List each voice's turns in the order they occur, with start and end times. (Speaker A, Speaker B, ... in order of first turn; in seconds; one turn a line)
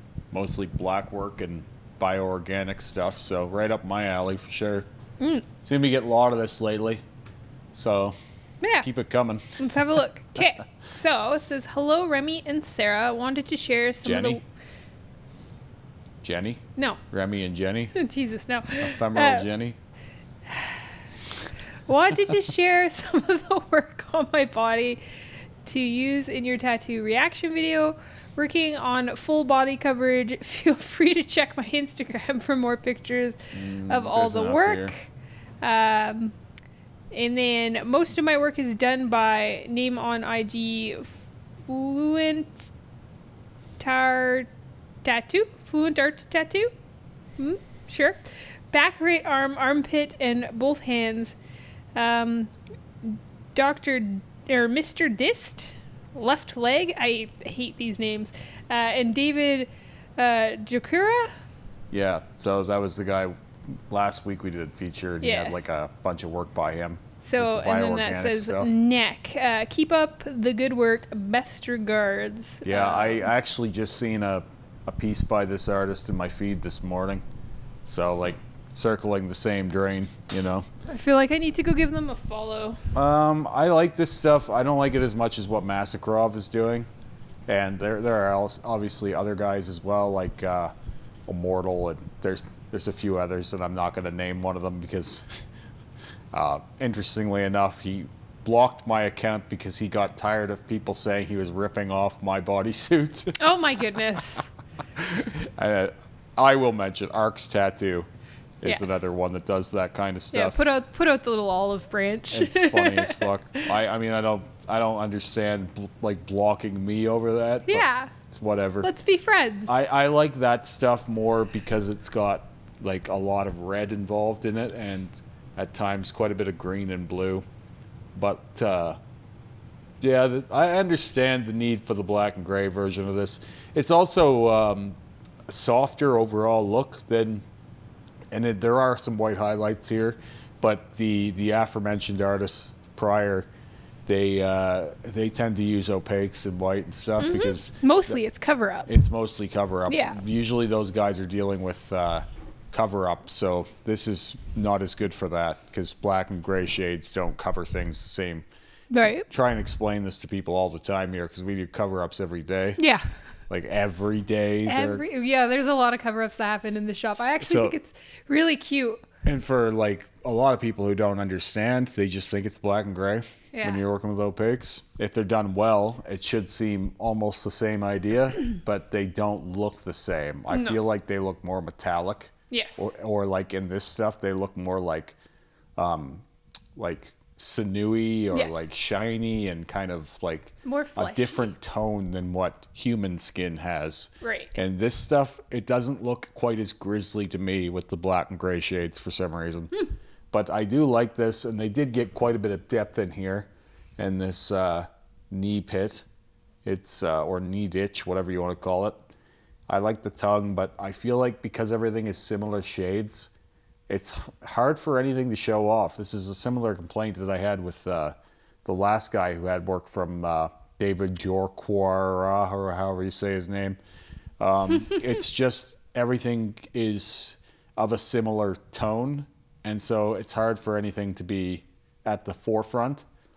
Speaker A: 0.3-4.9
Speaker B: 5.2-5.5
Speaker A: 5.6-7.0
Speaker A: 7.7-8.2
Speaker A: 8.8-9.6
Speaker B: 9.6-14.4
Speaker A: 14.1-14.4
Speaker A: 16.2-17.9
Speaker B: 17.9-19.5
Speaker A: 18.8-19.8
Speaker B: 20.5-20.9
Speaker B: 21.9-25.0
Speaker B: 25.6-35.1
Speaker A: 33.5-35.0
Speaker B: 35.6-36.4
Speaker B: 37.1-42.7
Speaker B: 43.8-44.5
Speaker B: 45.0-46.7
Speaker B: 47.4-51.4
Speaker B: 52.0-61.3
Speaker A: 61.9-63.3
Speaker A: 63.9-68.7
Speaker B: 65.2-65.5
Speaker B: 67.2-73.3
Speaker A: 72.6-77.2
Speaker A: 77.9-80.7
Speaker B: 80.9-82.8
Speaker A: 82.9-86.9
Speaker A: 87.5-90.7
Speaker A: 91.3-95.3
Speaker A: 96.3-103.4
Speaker B: 103.4-104.5
Speaker A: 105.0-108.1
Speaker A: 108.6-110.6
Speaker B: 108.6-109.0
Speaker B: 110.3-113.7
Speaker A: 112.3-118.9
Speaker B: 117.7-118.1
Speaker B: 118.8-119.7
Speaker A: 119.7-127.5
Speaker A: 128.2-129.0
Speaker A: 130.0-135.0
Speaker A: 135.5-137.4
Speaker A: 138.3-143.5
Speaker A: 144.1-148.2
Speaker B: 147.2-148.9
Speaker A: 148.9-158.5
Speaker B: 149.9-150.2
Speaker B: 158.9-159.3
Speaker A: 159.1-162.8
Speaker B: 162.8-163.1
Speaker A: 163.5-165.0
Speaker B: 164.7-169.0
Speaker A: 167.2-167.8
Speaker A: 169.2-185.2
Speaker B: 173.5-173.8
Speaker B: 180.5-180.8
Speaker B: 182.5-182.9
Speaker A: 185.8-186.2
Speaker A: 186.8-206.1
Speaker B: 188.3-188.7
Speaker B: 190.7-191.5
Speaker B: 194.2-194.5
Speaker A: 206.7-209.0
Speaker A: 209.7-213.3
Speaker A: 213.9-223.8
Speaker A: 224.4-233.1